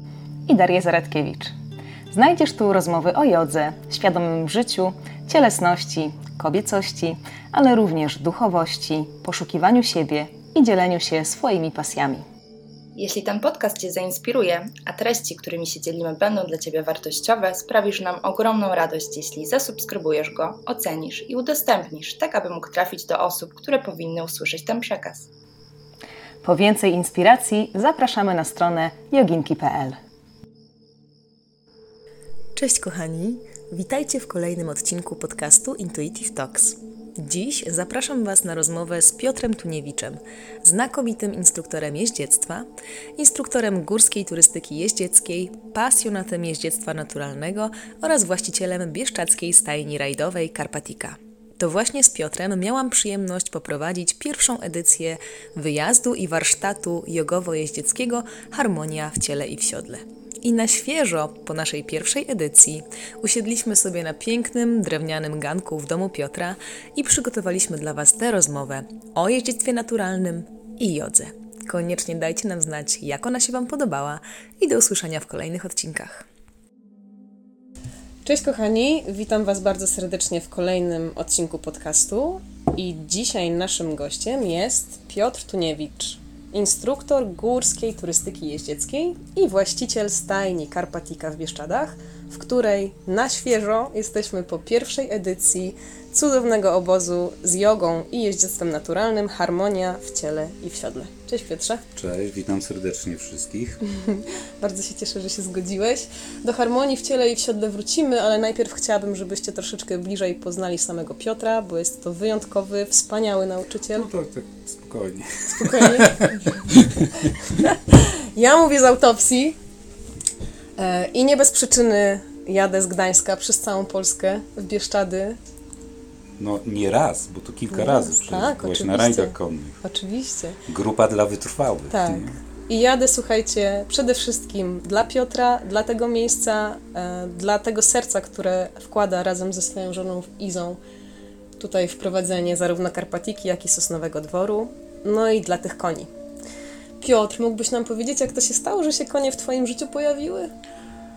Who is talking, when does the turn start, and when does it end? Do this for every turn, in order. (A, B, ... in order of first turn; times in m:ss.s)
0:00.5-0:01.5 A
0:02.1-0:12.2 A
0:13.0-0:25.3 B
0:26.4-0:30.0 A
0:32.6-0:42.6 C
0:43.2-1:16.2 C
1:18.2-1:41.8 D
1:42.0-1:43.8 E
1:44.0-1:54.1 D
1:53.9-1:57.3 E
1:55.5-1:56.6 D
1:57.6-1:59.6 D
2:00.8-2:05.4 D
2:06.4-2:09.8 E
2:07.7-2:10.6 D
2:10.7-2:12.4 E
2:11.9-2:20.8 D
2:21.6-2:26.1 D
2:27.0-2:30.5 D